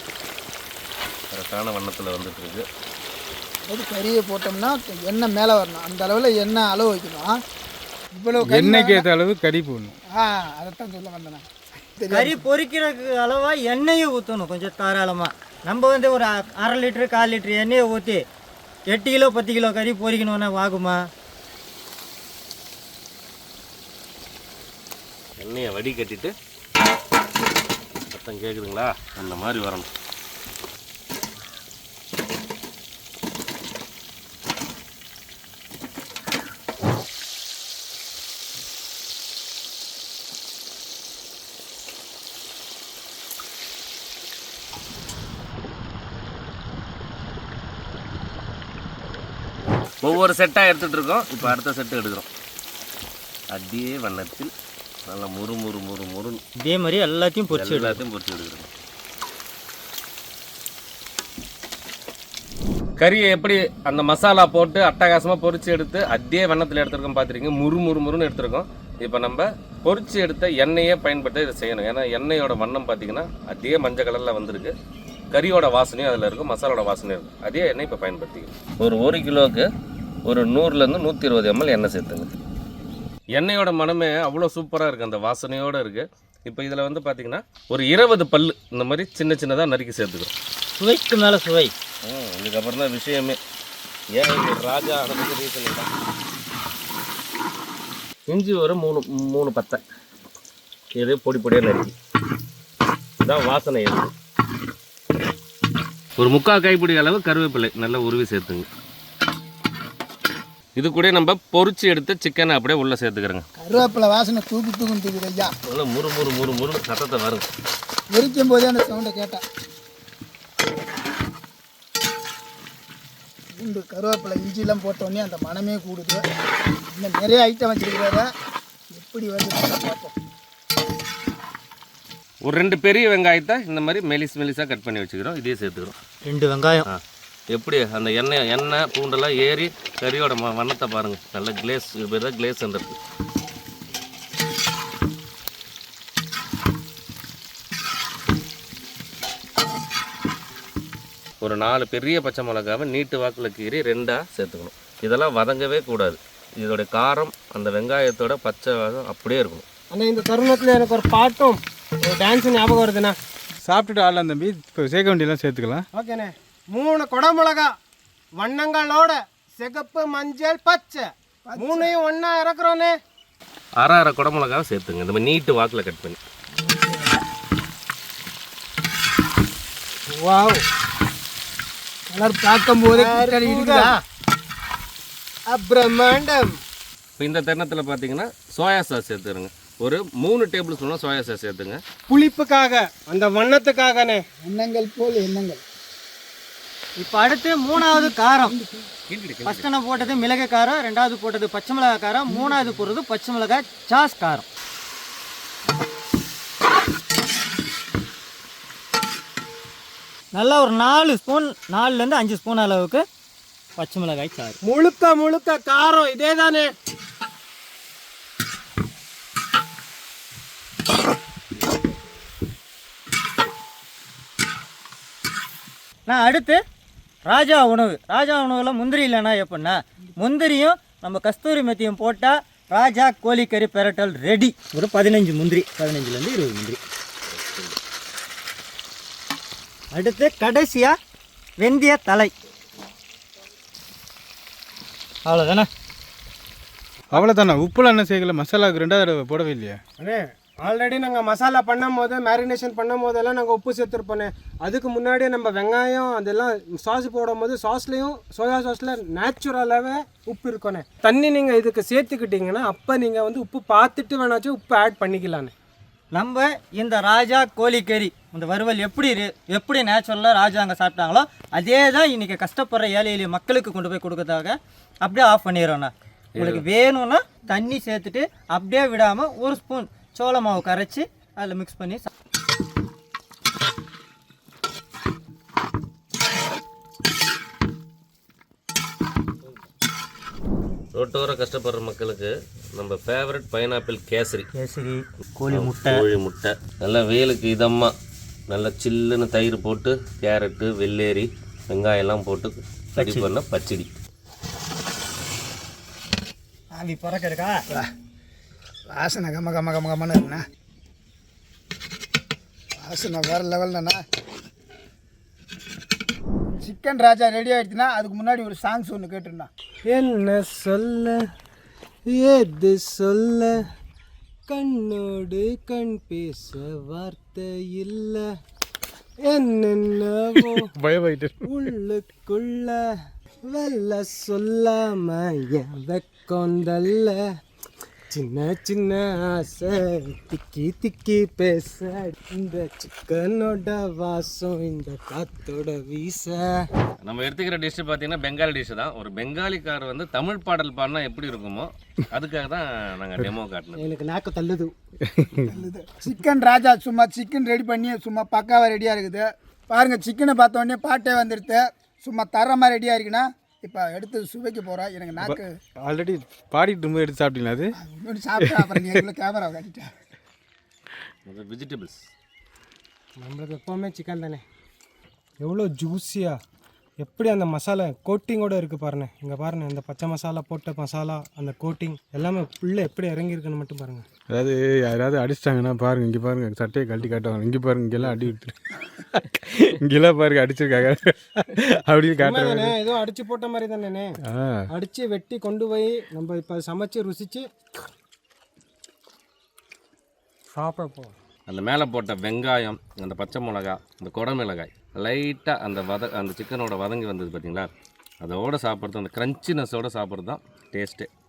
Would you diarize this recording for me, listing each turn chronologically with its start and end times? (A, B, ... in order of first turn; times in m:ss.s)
0:01.3-0:02.6 A
0:03.7-0:07.3 B
0:08.1-0:09.0 B
0:08.4-0:10.0 C
0:10.1-0:11.4 B
0:12.0-0:12.4 B
0:12.1-0:18.2 D
0:18.9-0:21.0 D
0:25.4-0:26.3 A
0:28.1-0:29.9 A
0:50.0-0:52.3 A
0:53.5-0:54.5 A
0:55.1-0:56.4 A
0:56.6-0:58.0 D
0:57.5-0:58.7 A
1:03.0-1:14.7 A
1:15.3-1:19.6 A
1:20.2-1:22.3 A
1:23.3-1:30.3 A
1:30.8-1:31.7 D
1:32.0-1:33.4 A
1:34.1-1:35.9 A
1:38.3-1:39.8 A
1:40.9-1:41.9 A
1:43.2-1:44.1 A
1:46.2-1:48.6 A
1:50.8-1:53.4 A
1:53.6-1:55.5 B
1:55.7-1:57.5 A
1:58.1-1:59.4 B
2:03.6-2:06.2 B
2:06.9-2:08.3 B
2:08.9-2:10.1 B
2:12.4-2:15.9 A
2:16.2-2:16.8 D
2:17.5-2:23.0 A
2:31.4-2:39.6 A
2:39.9-2:43.2 E
2:43.6-2:45.8 C
2:45.9-2:47.7 E
2:48.4-2:51.0 E
2:51.4-2:51.9 B
2:51.6-2:52.9 E
2:53.8-2:56.2 A
2:56.7-2:57.2 B
3:00.1-3:00.6 E
3:02.1-3:03.9 B
3:02.9-3:04.0 E
3:05.5-3:06.5 E
3:07.2-3:11.8 A
3:12.1-3:14.2 E
3:14.4-3:15.6 B
3:17.0-3:18.5 D
3:19.1-3:19.7 A
3:19.4-3:24.4 D
3:30.3-3:33.0 D
3:33.8-3:34.6 D
3:34.6-3:36.7 E
3:46.1-3:46.6 D
3:47.3-3:56.8 D
3:57.4-3:57.7 A
3:59.9-4:01.0 D
4:01.6-4:02.3 D
4:05.2-4:05.7 D
4:07.1-4:09.8 C
4:10.0-4:25.5 E
4:26.1-4:42.1 D
4:36.4-4:36.6 A
4:50.9-4:54.5 A
4:54.5-4:56.0 D
4:55.5-4:57.9 A
4:58.5-5:03.9 A
5:03.0-5:03.3 D
5:06.7-5:07.6 D
5:08.9-5:10.4 B
5:12.8-5:14.0 B
5:16.6-5:19.5 B
5:19.8-5:21.2 E
5:22.1-5:23.6 E
5:24.5-5:28.3 E
5:29.2-5:30.7 E
5:30.4-5:31.5 C
5:31.4-5:32.8 E
5:33.4-5:37.2 E
5:38.1-5:46.6 E
5:47.0-5:53.9 A
5:53.8-5:54.7 E
5:55.1-5:55.5 C
5:55.5-6:05.4 B
6:05.2-6:07.7 C
6:07.8-6:09.9 B
6:11.2-6:12.0 A
6:13.2-6:14.4 E
6:15.4-6:16.4 E
6:17.0-6:24.0 E
6:24.3-6:28.6 C
6:29.1-6:32.7 C
6:32.2-6:34.1 E
6:34.3-6:34.6 C
6:34.7-6:37.4 E
6:40.5-6:41.1 E
6:41.5-6:47.7 A
6:48.2-6:51.1 A